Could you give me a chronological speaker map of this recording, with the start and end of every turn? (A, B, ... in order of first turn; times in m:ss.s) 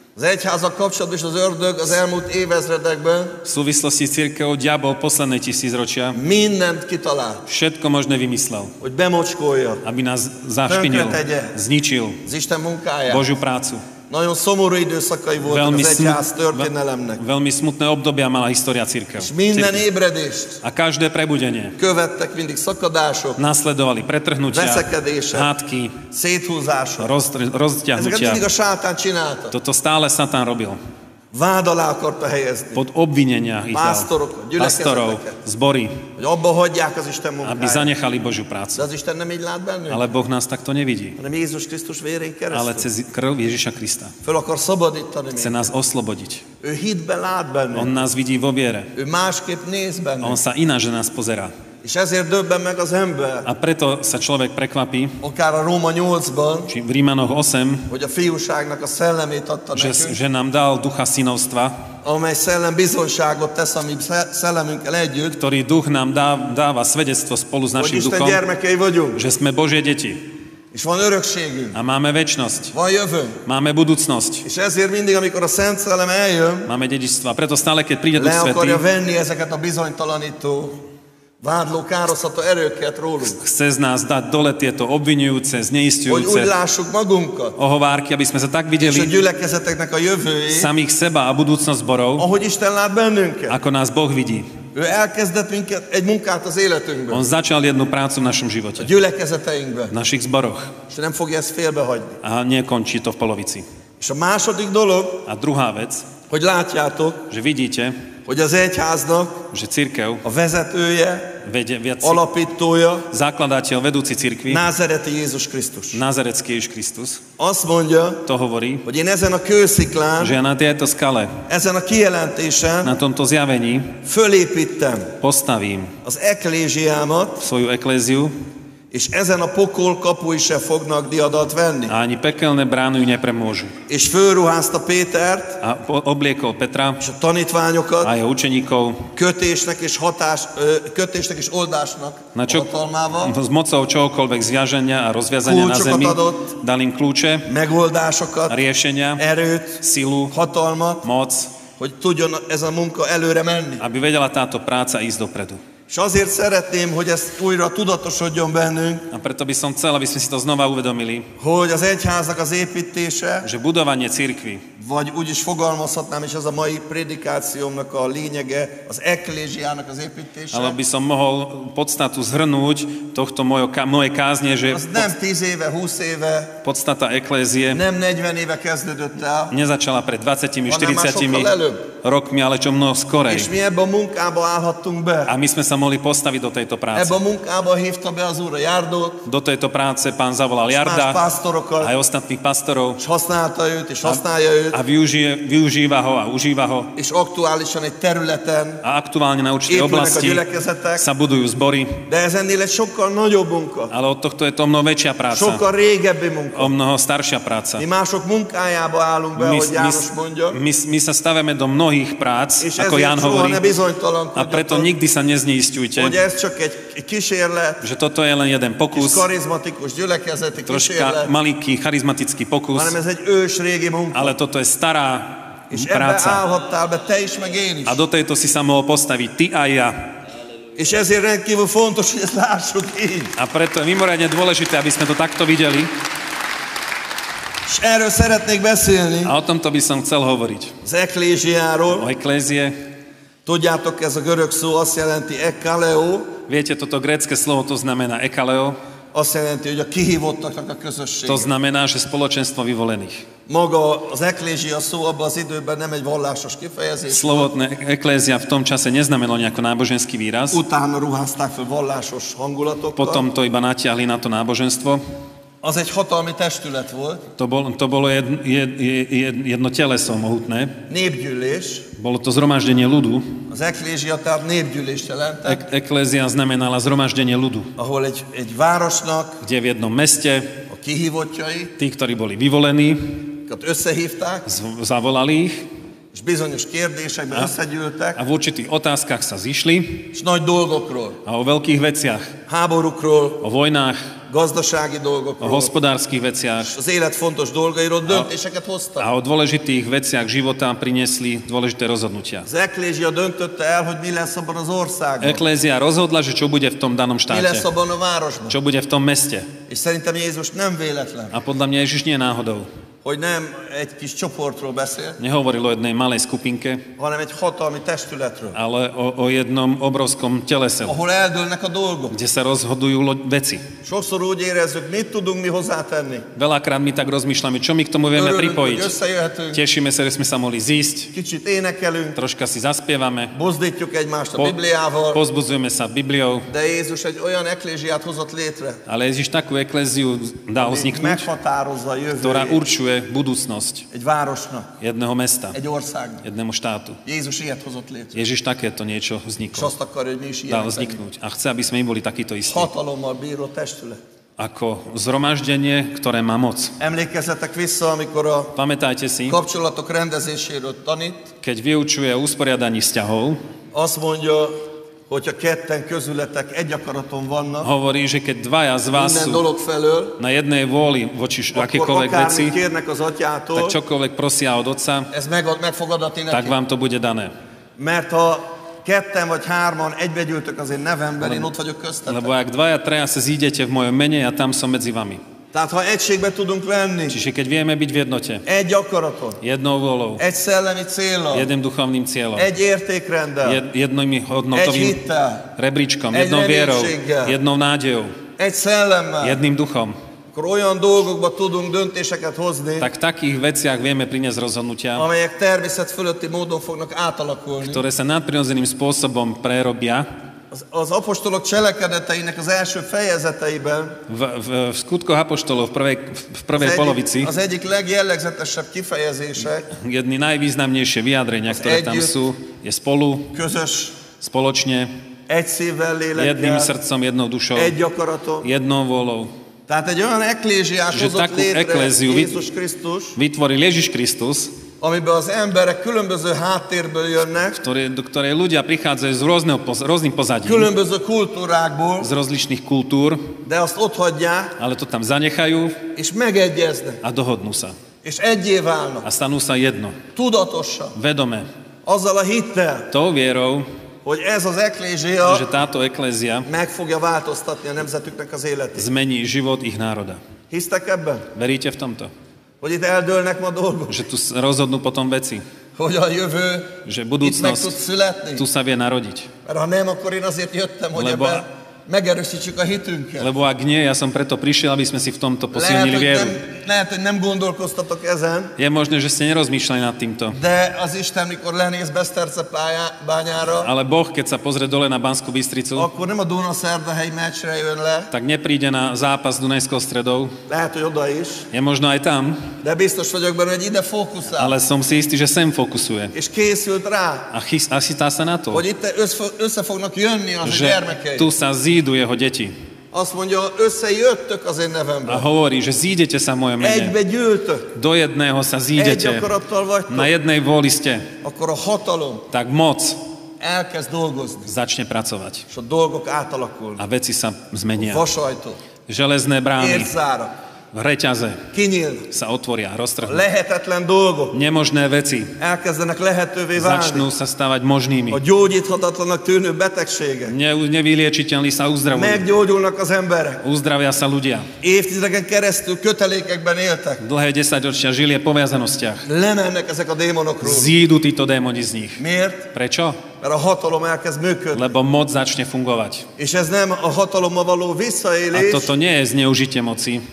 0:00.2-0:03.4 A
0:03.4-0:06.2 B
0:06.1-0:07.4 A
0:07.5-0:08.8 B
0:08.8-0:09.8 A
0:09.8-0:12.2 B
0:10.7-0:11.6 A
0:12.2-0:13.3 A
0:13.1-0:13.8 B
0:14.1-0:17.2 A
0:15.4-0:19.8 B
0:19.2-0:20.6 A
0:20.6-0:21.8 B
0:21.8-0:23.4 A
0:23.4-0:26.0 B
0:24.5-0:25.5 A
0:26.0-0:27.1 A
0:27.0-0:28.5 B
0:28.0-0:29.6 A
0:29.5-0:30.8 B
0:31.3-0:32.8 A
0:32.8-0:36.1 B
0:33.7-0:35.4 A
0:36.2-0:37.9 A
0:37.4-0:38.9 B
0:38.8-0:40.0 A
0:39.9-0:41.2 B
0:41.2-0:42.9 A
0:42.5-0:44.1 B
0:44.2-0:45.6 A
0:45.3-0:46.4 B
0:46.6-0:48.1 A
0:47.8-0:48.9 B
0:49.0-0:50.4 A
0:50.2-0:51.5 B
0:51.8-0:53.5 A
0:53.4-0:55.2 B
0:55.2-0:56.7 A
0:56.7-0:57.9 B
0:57.9-1:00.2 A
0:59.8-1:01.8 B
1:02.0-1:05.4 A
1:05.4-1:08.4 B
1:07.8-1:09.2 A
1:09.2-1:10.3 B
1:10.7-1:11.8 A
1:11.7-1:12.7 B
1:12.7-1:13.4 A
1:13.5-1:14.5 B
1:14.4-1:16.7 A
1:16.7-1:18.8 B
1:18.2-1:20.8 A
1:21.4-1:23.4 A
1:23.2-1:26.5 B
1:26.1-1:27.6 A
1:27.6-1:29.1 B
1:28.8-1:30.7 A
1:30.5-1:32.3 B
1:32.2-1:33.6 A
1:33.5-1:34.5 B
1:34.7-1:37.3 A
1:37.1-1:38.9 B
1:38.8-1:40.0 A
1:39.9-1:40.8 B
1:40.9-1:42.2 A
1:42.2-1:43.6 B
1:44.0-1:45.3 A
1:45.3-1:46.1 B
1:46.3-1:47.2 A
1:47.3-1:48.0 B
1:48.3-1:49.5 A
1:49.5-1:50.2 B
1:50.2-1:51.4 A
1:51.4-1:52.2 B
1:52.0-1:53.1 A
1:53.1-1:54.6 B
1:54.5-1:56.0 A
1:55.9-1:57.2 B
1:57.4-1:58.3 A
1:58.2-1:58.8 B
1:58.8-2:00.4 A
2:00.2-2:01.4 B
2:01.5-2:03.0 A
2:02.8-2:04.0 B
2:04.0-2:05.2 A
2:05.2-2:06.0 B
2:06.0-2:07.4 A
2:07.4-2:08.4 B
2:08.9-2:12.0 A
2:11.9-2:13.8 B
2:13.9-2:15.6 A
2:15.6-2:17.0 B
2:17.0-2:18.1 A
2:18.0-2:19.1 B
2:19.1-2:23.4 A
2:22.4-2:27.5 B
2:25.4-2:26.5 A
2:27.5-2:28.6 A
2:28.5-2:29.2 B
2:29.2-2:31.1 A
2:29.8-2:30.3 B
2:31.0-2:31.5 B
2:31.8-2:33.8 A
2:33.8-2:35.6 B
2:35.9-2:39.1 A
2:39.1-2:41.3 B
2:41.4-2:43.5 A
2:43.4-2:44.6 B
2:44.8-2:50.8 A
2:50.5-2:55.1 B
2:54.7-2:56.6 A
2:56.6-2:57.8 B
2:57.7-2:59.6 A
2:59.5-3:03.5 B
3:00.7-3:01.9 A
3:03.3-3:05.3 A
3:05.3-3:07.2 B
3:06.9-3:09.2 A
3:09.2-3:11.2 B
3:10.7-3:11.9 A
3:11.8-3:13.0 B
3:13.0-3:14.8 A
3:14.7-3:16.9 B
3:17.0-3:18.8 A
3:18.8-3:20.4 B
3:19.7-3:21.1 A
3:21.0-3:22.1 B
3:22.1-3:23.9 A
3:23.9-3:25.6 B
3:25.3-3:26.7 A
3:26.6-3:27.8 B
3:27.8-3:30.6 A
3:29.4-3:33.7 B
3:32.6-3:34.9 A
3:34.4-3:36.2 B
3:36.0-3:37.8 A
3:37.8-3:39.3 B
3:38.9-3:41.3 A
3:40.7-3:43.0 B
3:42.7-3:44.4 A
3:44.1-3:46.4 B
3:45.7-3:48.0 A
3:47.9-3:50.2 B
3:50.8-3:53.4 A
3:53.4-3:55.9 B
3:57.7-3:59.3 A
3:59.2-4:00.7 B
4:00.8-4:02.1 A
4:01.9-4:02.8 B
4:03.4-4:06.4 A
4:06.5-4:08.8 B
4:09.1-4:11.5 A
4:11.3-4:13.3 B
4:13.5-4:17.5 A
4:17.1-4:20.6 B
4:20.5-4:23.3 A
4:23.0-4:25.0 B
4:25.6-4:27.2 A
4:27.4-4:30.8 B
4:30.9-4:31.9 A
4:32.0-4:33.4 B
4:33.5-4:35.7 A
4:35.5-4:37.7 B
4:37.8-4:39.4 A
4:39.4-4:40.6 B
4:40.7-4:41.8 A
4:41.8-4:43.3 B
4:43.5-4:44.5 A
4:44.5-4:45.7 B
4:46.1-4:48.2 A
4:48.2-4:50.1 B
4:50.1-4:51.2 A
4:51.2-4:52.4 B
4:52.5-4:53.5 A
4:53.4-4:54.1 B
4:54.3-4:55.7 A
4:55.4-4:56.8 B
4:56.7-4:59.1 A
4:59.0-5:02.5 B
5:02.5-5:05.4 A
5:05.2-5:07.7 B
5:07.3-5:08.6 A
5:08.5-5:09.5 B
5:09.7-5:11.3 A
5:11.3-5:12.7 B
5:13.0-5:15.2 A
5:15.2-5:16.9 B
5:17.0-5:18.6 A
5:18.5-5:21.0 B
5:20.8-5:22.2 A
5:22.1-5:23.7 B
5:23.8-5:26.3 A
5:26.4-5:28.9 B
5:28.2-5:29.6 A
5:29.5-5:31.1 B
5:31.1-5:32.2 A
5:32.2-5:33.3 B
5:33.3-5:35.2 A
5:35.1-5:36.5 B
5:36.5-5:38.8 A
5:38.9-5:41.3 B
5:40.6-5:42.6 A
5:42.2-5:43.9 B
5:43.9-5:44.7 A
5:44.8-5:45.6 B
5:45.5-5:46.2 A
5:46.2-5:47.0 B
5:47.0-5:48.2 A
5:48.1-5:49.7 B
5:49.5-5:51.0 A
5:50.5-5:52.7 B
5:52.5-5:54.0 A
5:54.4-5:56.8 B
5:56.8-5:58.6 A
5:58.6-5:59.4 B
5:59.3-6:01.3 A
6:01.4-6:03.4 B
6:03.7-6:07.7 A
6:07.6-6:09.4 B
6:08.9-6:10.2 A
6:10.2-6:12.6 B
6:11.5-6:13.8 A
6:13.6-6:15.1 B
6:15.1-6:16.6 A
6:16.3-6:17.3 B
6:17.8-6:22.3 A
6:21.2-6:21.5 B
6:22.1-6:25.2 B
6:25.5-6:27.2 A
6:27.1-6:28.4 B
6:28.5-6:29.4 A
6:29.4-6:30.2 B
6:30.2-6:31.5 A
6:31.3-6:32.5 B
6:32.4-6:33.6 A
6:33.4-6:35.0 B
6:34.5-6:35.5 A
6:35.6-6:38.2 B
6:36.1-6:37.4 A
6:38.4-6:39.4 A
6:39.2-6:40.0 B
6:40.3-6:42.9 A
6:42.8-6:45.1 B
6:45.0-6:47.8 A
6:47.6-6:50.1 B
6:50.5-6:54.0 A
6:54.1-6:57.3 B
6:56.6-6:59.7 A
6:59.7-7:03.4 B
7:01.5-7:02.2 A
7:03.3-7:04.0 A
7:04.2-7:04.9 B
7:05.3-7:06.7 A
7:06.2-7:07.7 B
7:07.6-7:08.5 A
7:08.4-7:09.3 B
7:09.7-7:13.2 A
7:10.9-7:12.4 B
7:13.2-7:14.5 B
7:14.8-7:17.6 A
7:17.5-7:20.7 B
7:20.4-7:22.1 A
7:22.0-7:23.4 B
7:23.4-7:24.6 A
7:24.6-7:25.9 B
7:26.0-7:27.0 A
7:27.0-7:27.8 B
7:28.0-7:29.1 A
7:29.0-7:30.0 B
7:30.1-7:31.0 A
7:31.0-7:31.5 B
7:31.8-7:32.9 A
7:32.9-7:33.7 B
7:34.0-7:35.5 A
7:35.2-7:36.5 B
7:36.4-7:38.9 A
7:38.8-7:40.2 B
7:40.5-7:41.3 A
7:41.4-7:42.1 B
7:42.6-7:44.0 A
7:43.9-7:45.4 B
7:45.8-7:48.5 A
7:46.8-7:47.7 B
7:48.4-7:49.3 B
7:49.4-7:53.3 A
7:51.0-7:51.4 B
7:53.2-7:56.4 B
7:55.5-7:58.5 A
7:58.6-8:00.4 B
8:00.3-8:03.7 A
8:03.6-8:05.9 B
8:05.8-8:08.1 A
8:08.1-8:10.4 B
8:10.5-8:11.5 A
8:11.5-8:12.5 B
8:12.6-8:14.6 A
8:14.4-8:16.1 B
8:16.1-8:17.3 A
8:17.3-8:18.6 B
8:18.5-8:21.3 A
8:20.4-8:22.6 B
8:22.9-8:25.3 A
8:25.1-8:27.0 B
8:26.6-8:27.7 A
8:27.7-8:29.3 B
8:28.8-8:30.1 A
8:29.9-8:31.1 B
8:31.2-8:32.3 A
8:32.3-8:33.0 B
8:33.4-8:34.5 A
8:34.5-8:35.5 B
8:35.5-8:36.8 A
8:36.8-8:38.0 B
8:37.8-8:38.6 A
8:38.9-8:39.9 B
8:39.6-8:40.3 A
8:40.7-8:41.5 B
8:41.5-8:42.1 A
8:42.1-8:43.2 B
8:43.0-8:44.4 A
8:44.3-8:45.4 B
8:45.4-8:47.1 A
8:46.6-8:48.2 B
8:48.1-8:50.4 A
8:50.3-8:52.2 B
8:51.9-8:53.4 A
8:53.4-8:54.5 B
8:54.6-8:57.0 A
8:57.0-8:59.1 B
8:59.0-9:00.8 A
9:00.4-9:03.0 B
9:02.0-9:02.5 A
9:03.2-9:04.6 A
9:04.5-9:06.1 B
9:06.2-9:08.7 A
9:08.3-9:10.0 B